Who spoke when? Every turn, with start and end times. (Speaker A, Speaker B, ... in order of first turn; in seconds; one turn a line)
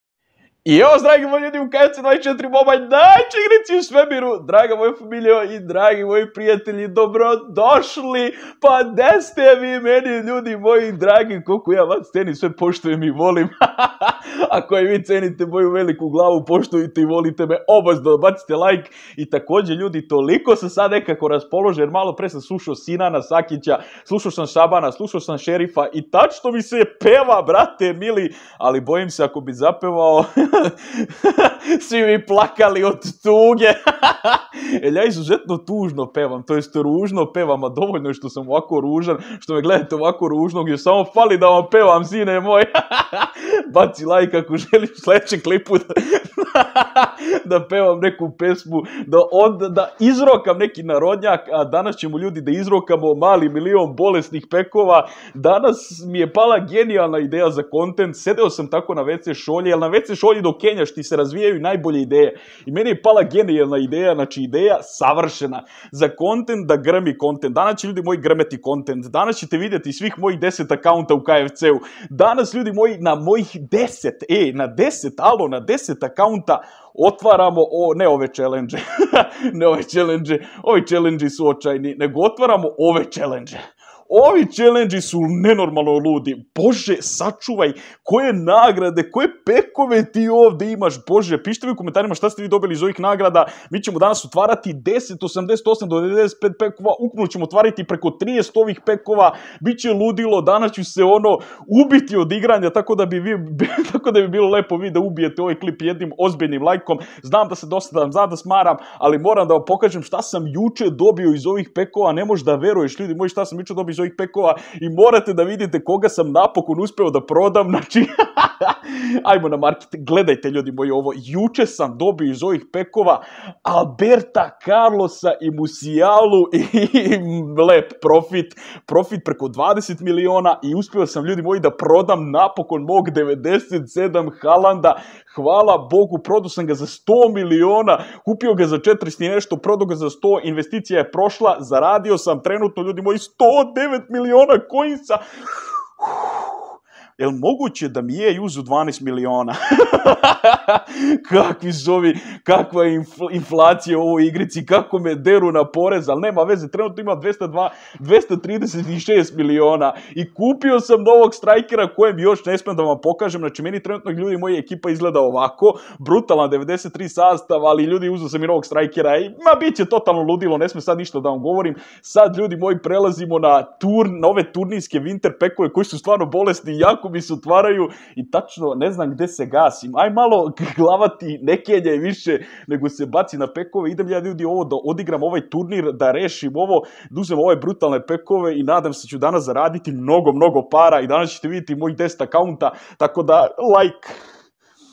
Speaker A: 0.7-146.6
Speaker A: 147.2-194.2